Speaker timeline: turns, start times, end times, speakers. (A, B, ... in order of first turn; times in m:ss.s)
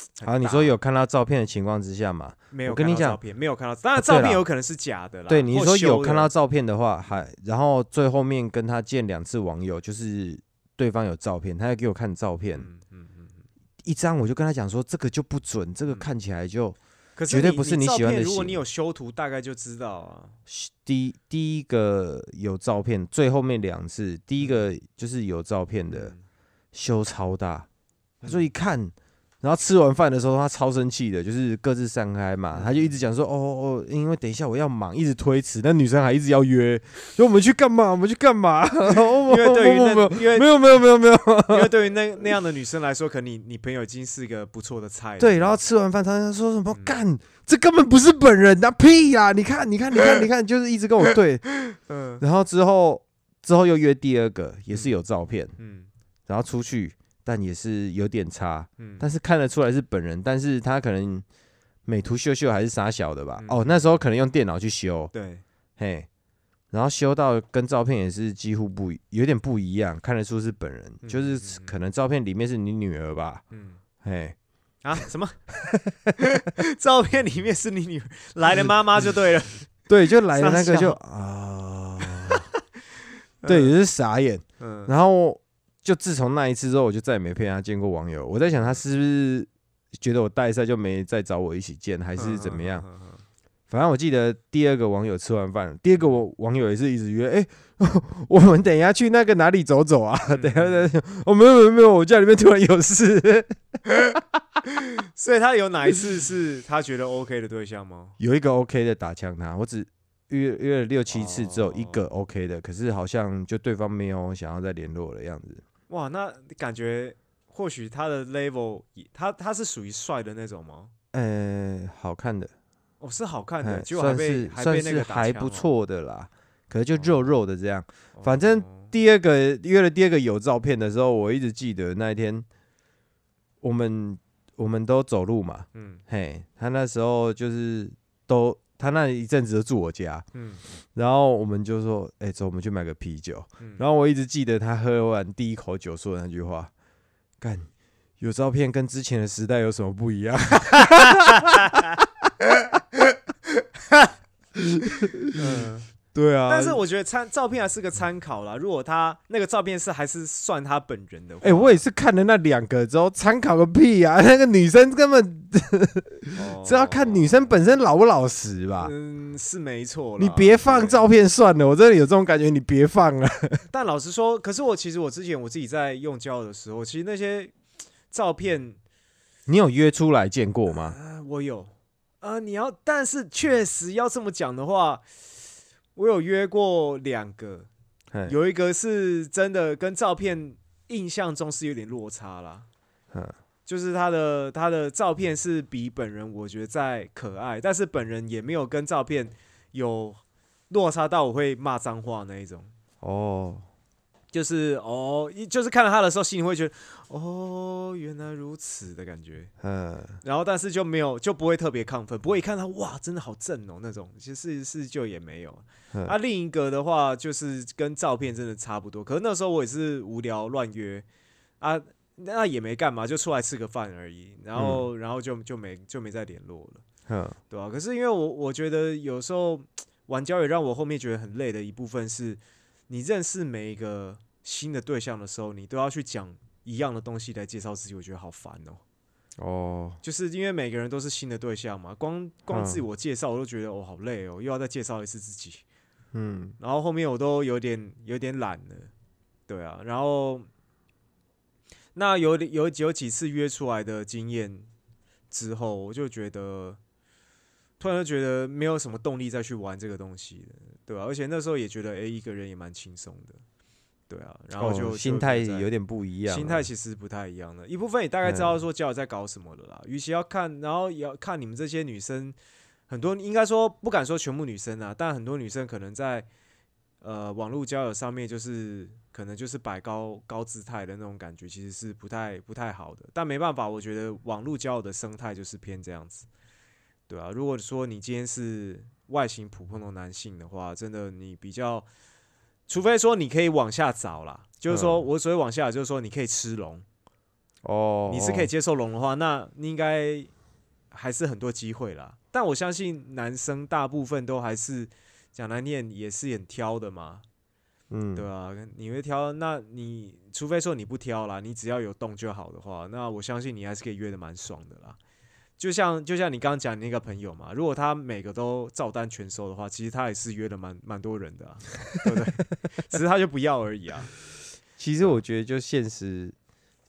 0:00.2-0:00.8 A
0:00.2-0:03.2 B
0:02.5-0:06.3 A
0:04.0-0:04.4 B
0:05.3-0:12.7 B
0:12.6-0:13.4 A
0:13.8-0:16.8 B
0:17.2-0:20.4 A
0:17.3-0:18.6 B
0:20.5-0:26.1 B
0:24.4-0:24.6 A
0:25.9-0:26.2 A
0:26.7-0:27.7 B
0:28.2-0:41.7 B
0:32.5-0:33.0 A
0:39.2-0:40.5 A
0:41.5-0:45.6 A
0:45.2-0:51.6 B
0:51.9-0:52.2 A
0:52.2-0:55.6 B
0:55.6-0:55.9 A
0:56.3-1:01.2 B
0:58.8-0:59.0 A
1:01.9-1:05.1 B
1:03.4-1:04.0 A
1:05.1-1:05.4 A
1:05.8-1:06.1 B
1:06.7-1:13.4 B
1:11.0-1:11.8 A
1:13.5-1:13.8 A
1:14.0-1:14.4 B
1:14.8-1:15.5 A
1:15.6-1:16.1 B
1:16.2-1:19.7 A
1:19.9-1:22.4 B
1:20.3-1:21.0 A
1:22.0-1:22.4 A
1:23.4-1:23.7 A
1:23.4-1:32.8 B
1:24.6-1:24.9 A
1:32.2-1:33.2 A
1:33.7-1:44.2 B
1:40.3-1:40.9 A
1:44.7-1:48.2 A
1:48.2-1:55.6 B
1:51.1-1:52.0 A
1:55.9-2:00.9 A
2:01.1-2:02.5 B
2:03.0-2:05.7 A
2:03.6-2:12.4 B
2:08.2-2:08.9 A
2:13.6-2:20.3 B
2:15.7-2:16.0 A
2:20.3-2:20.6 A
2:20.9-2:26.7 B
2:27.4-2:31.8 B
2:31.5-2:31.9 A
2:34.6-2:35.4 B
2:35.3-2:35.9 A
2:36.1-2:36.8 B
2:36.5-2:41.8 A
2:41.4-2:48.9 B
2:46.4-2:47.3 A
2:48.8-2:51.0 A
2:50.2-2:53.7 B
2:53.7-2:57.5 A
2:58.1-2:58.8 A
2:59.5-3:01.0 B
3:00.8-3:07.7 A
3:08.2-3:12.7 A
3:13.7-3:22.7 A
3:23.0-3:23.6 B
3:24.3-3:29.5 A
3:29.6-3:30.2 B
3:30.2-3:41.0 A
3:41.6-3:46.8 A
3:44.6-3:44.8 B
3:47.1-3:47.4 B
3:47.5-3:58.8 A
3:59.4-4:00.0 B
4:00.0-4:05.6 A
4:02.5-4:02.8 B
4:06.1-4:06.6 B
4:06.6-4:08.9 A
4:09.5-4:10.5 A
4:12.0-4:14.7 A
4:15.3-4:16.8 A
4:17.8-4:23.4 A
4:24.1-4:25.7 A
4:24.6-4:26.7 B
4:26.3-4:32.4 A
4:28.2-4:28.6 B
4:32.9-4:36.3 A
4:37.0-4:46.3 A
4:47.1-4:51.9 A
4:52.7-4:56.8 A
4:54.7-4:55.0 B
4:57.6-4:58.5 B
4:58.1-5:00.3 A
5:00.9-5:07.2 A
5:07.9-5:08.3 B
5:08.1-5:15.0 A
5:15.6-5:24.1 A
5:24.8-5:26.4 B